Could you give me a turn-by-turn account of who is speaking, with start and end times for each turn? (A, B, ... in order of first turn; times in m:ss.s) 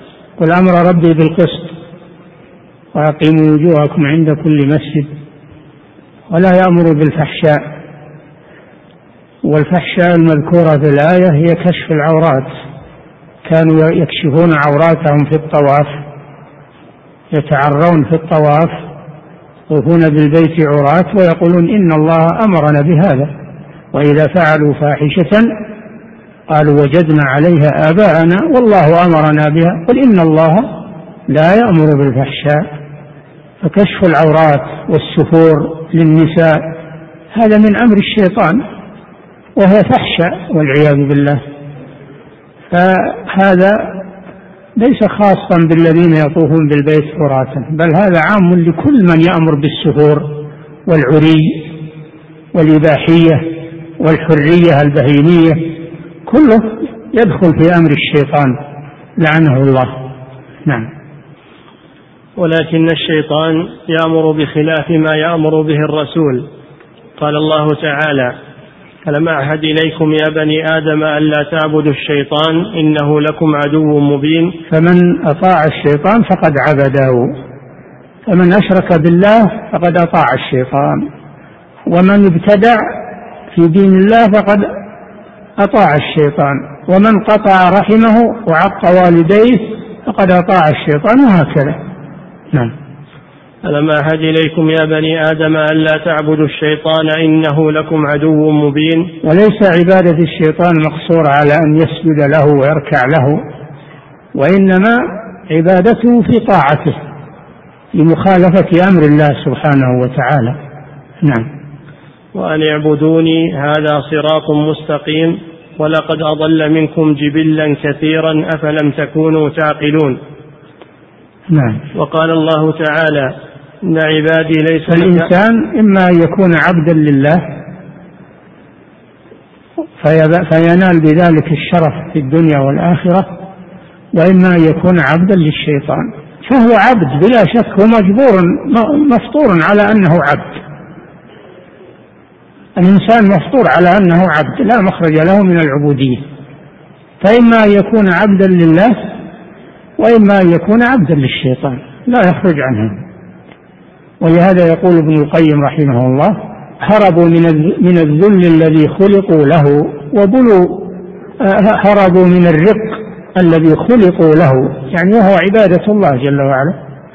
0:00.4-0:01.8 A
0:02.9-0:05.1 A
0:06.3-0:07.6 A
0:09.4-0:12.5 A
0:13.4-0:16.0 A
0:17.3-0:18.8 A
0:19.7-0:23.3 A
0:23.9-0:25.6 A
0:26.5-0:32.7 A
0:33.6-0:36.8 A
0:37.3-0:38.6 A
0:39.6-0:41.4 A
0:42.7-0:44.1 A
0:44.8-0:51.7 A
0:52.6-0:58.6 A
0:59.2-1:00.1 A
1:02.4-1:06.5 B
1:07.2-1:08.4 B
1:09.0-1:14.6 B
1:14.7-1:17.3 A
1:18.3-1:21.0 A
1:21.9-1:24.7 A
1:25.6-1:31.8 A
1:33.7-1:39.1 B
1:39.2-1:43.4 A
1:44.4-1:47.0 A
1:47.9-1:50.6 A
1:51.2-1:51.5 A
1:52.3-2:00.2 B
2:01.5-2:01.8 A
2:02.0-2:05.3 B
2:04.9-2:07.5 A
2:10.0-2:13.4 A
2:14.1-2:20.6 A
2:22.8-2:26.2 A
2:27.2-2:29.1 A
2:30.0-2:33.0 A
2:34.2-2:46.8 A